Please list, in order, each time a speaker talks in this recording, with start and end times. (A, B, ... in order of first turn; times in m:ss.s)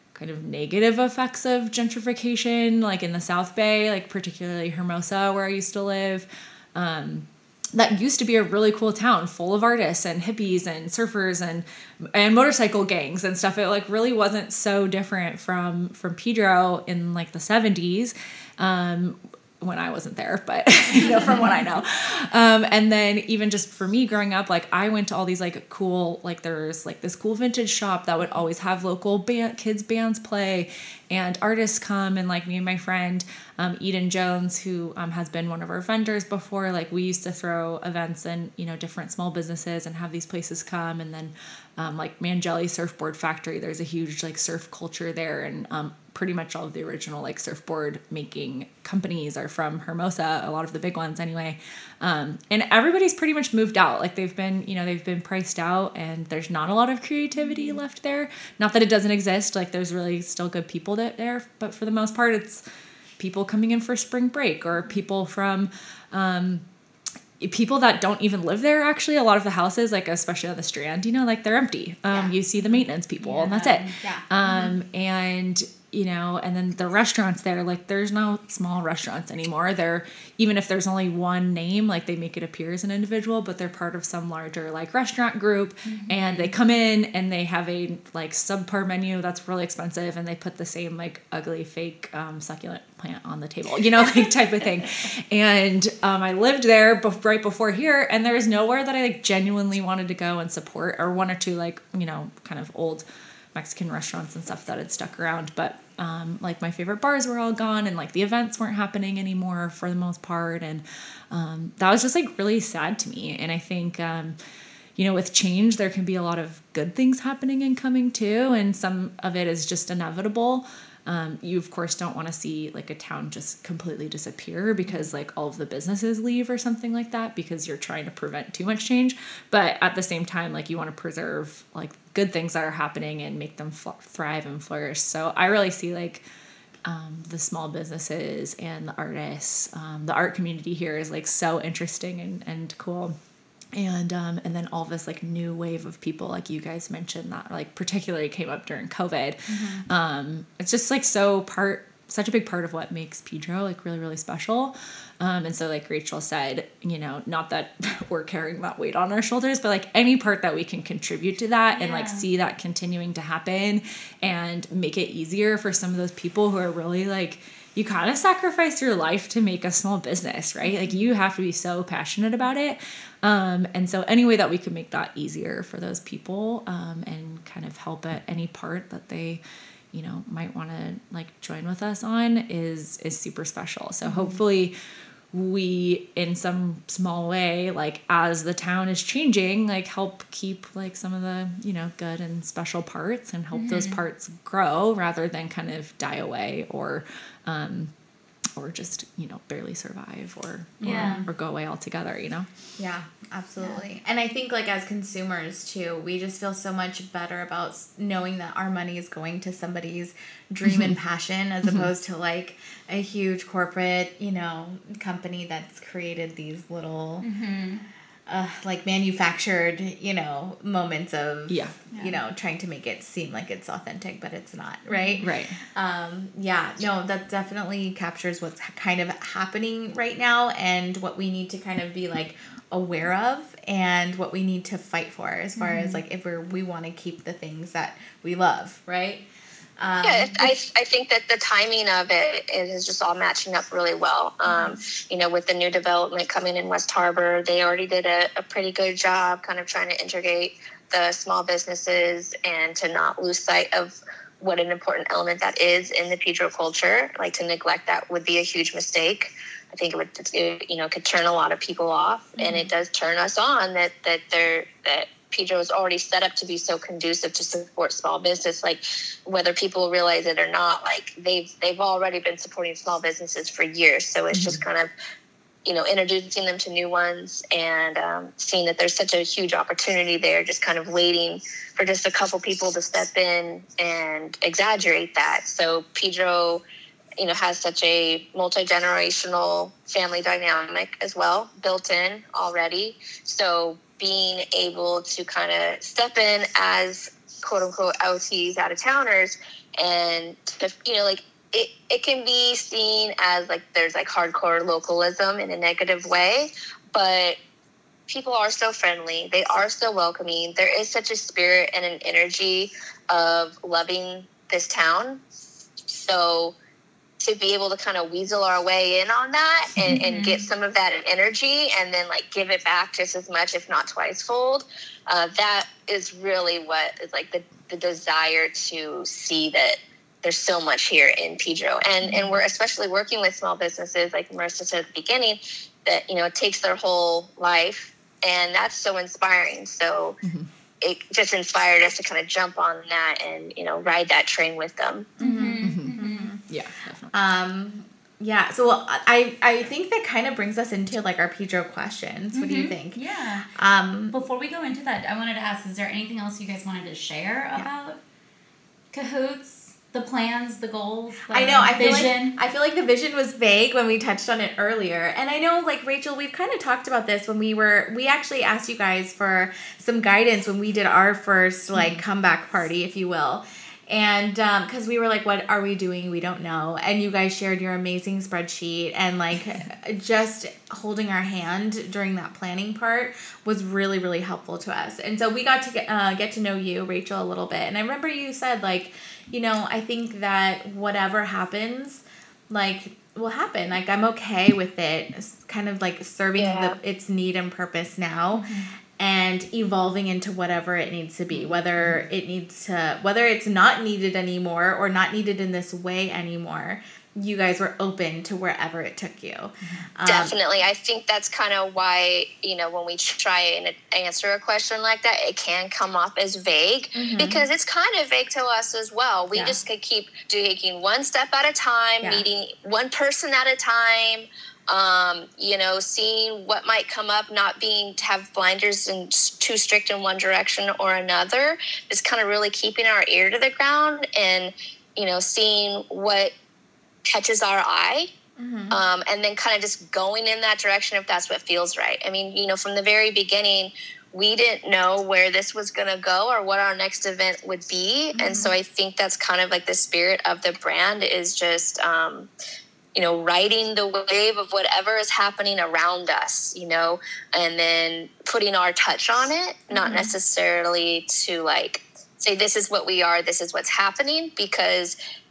0:00.1-1:02.6 A
0:57.4-0:57.8 B
1:03.2-1:06.6 A
1:07.4-1:54.4 A
1:13.2-1:14.7 B
1:13.5-1:14.7 C
1:25.9-1:26.5 B
1:55.0-2:16.2 A
2:16.8-2:23.2 A
2:23.7-2:59.4 A
2:29.5-2:29.8 C
2:41.8-2:42.3 B
2:50.7-2:50.9 B
2:59.9-3:04.7 A
3:05.3-3:17.9 A
3:13.5-3:14.0 B
3:18.6-3:22.5 A
3:20.8-3:21.2 B
3:20.9-3:21.2 C
3:22.8-3:37.3 C
3:30.7-3:31.0 A
3:31.6-3:31.9 A
3:37.2-3:37.8 B
3:38.3-3:59.2 C
3:41.5-3:41.8 A
3:41.9-3:42.2 B
3:44.9-3:45.2 B
3:45.2-3:45.6 A
3:55.6-3:56.0 B
3:59.8-4:00.6 C
4:00.0-4:34.9 D
4:04.5-4:04.7 B
4:22.4-4:22.7 B
4:34.3-4:34.6 A
4:35.6-4:46.6 D
4:47.2-5:07.4 D
5:08.1-5:15.2 D
5:15.9-5:16.6 D
5:17.2-5:40.2 D
5:19.9-5:20.4 B
5:40.2-5:40.5 A
5:40.8-5:45.1 D
5:45.2-5:46.4 C
5:45.2-5:46.3 B
5:45.6-5:47.2 A
5:47.1-5:53.0 C
5:52.3-5:53.5 B
5:53.6-5:54.2 C
5:54.1-5:58.0 B
5:58.9-6:02.4 B
6:01.3-6:38.5 C
6:11.8-6:12.0 A
6:36.4-6:36.8 D
6:39.0-6:50.3 C
6:41.8-6:42.0 A
6:49.6-6:49.9 A
6:50.1-7:16.3 D
6:57.0-6:57.4 C
7:17.1-7:18.1 D
7:18.4-7:18.8 C
7:18.7-7:32.3 D
7:28.2-7:28.5 C
7:32.9-7:45.0 D
7:39.7-7:40.1 C